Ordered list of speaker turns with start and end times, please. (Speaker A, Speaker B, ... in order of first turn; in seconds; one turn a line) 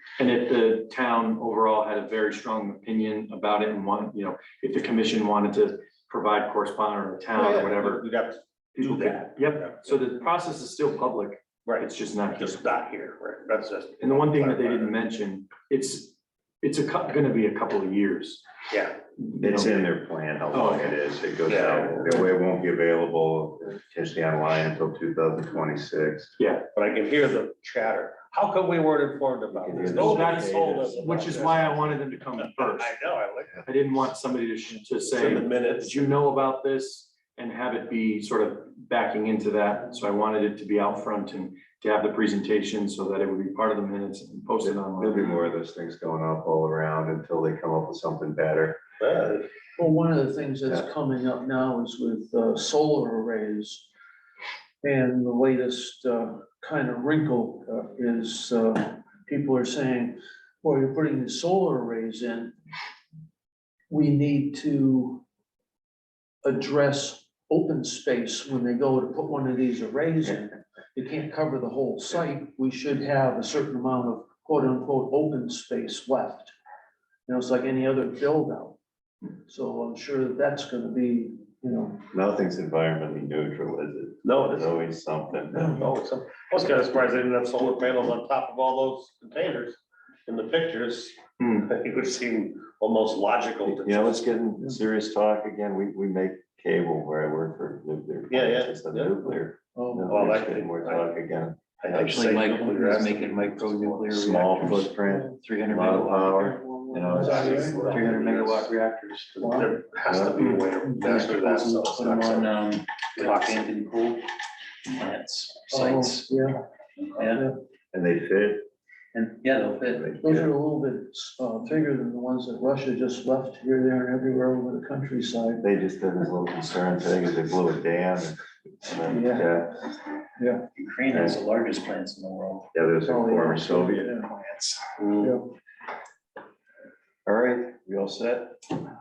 Speaker A: 0.2-8.0
Speaker B: 7.3-9.8
Speaker A: 8.7-12.6
Speaker B: 11.6-14.9
Speaker A: 14.0-18.4
Speaker B: 18.7-19.0
Speaker A: 19.2-19.9
Speaker C: 19.4-26.3
Speaker A: 20.5-20.9
Speaker B: 21.5-22.1
Speaker A: 26.4-26.7
Speaker B: 26.7-31.9
Speaker C: 29.5-31.5
Speaker A: 29.8-33.0
Speaker B: 32.5-33.6
Speaker A: 33.5-45.3
Speaker B: 35.1-36.2
Speaker C: 44.6-48.8
Speaker B: 49.0-49.5
Speaker D: 49.8-53.9
Speaker D: 54.8-62.5
Speaker D: 63.9-65.2
Speaker D: 66.4-76.5
Speaker D: 77.3-78.8
Speaker D: 79.4-82.0
Speaker C: 82.1-85.8
Speaker B: 84.2-84.5
Speaker B: 85.5-94.2
Speaker C: 93.6-101.6
Speaker B: 98.3-99.2
Speaker D: 99.7-100.1
Speaker B: 100.1-101.1
Speaker B: 101.8-104.1
Speaker E: 101.9-109.5
Speaker C: 104.1-108.7
Speaker B: 107.2-108.2
Speaker D: 107.3-107.7
Speaker B: 109.4-112.6
Speaker C: 110.1-110.5
Speaker E: 111.0-114.2
Speaker B: 113.2-113.7
Speaker E: 114.9-116.3
Speaker D: 115.7-116.6
Speaker E: 117.2-117.4
Speaker D: 117.3-117.6
Speaker C: 117.9-118.7
Speaker E: 119.1-120.0
Speaker C: 119.5-120.5
Speaker D: 120.2-125.7
Speaker C: 125.6-129.9
Speaker E: 130.7-132.7
Speaker C: 131.1-131.4
Speaker C: 132.7-134.1
Speaker D: 133.0-134.2
Speaker E: 134.2-134.8
Speaker B: 135.0-135.3
Speaker C: 137.2-138.7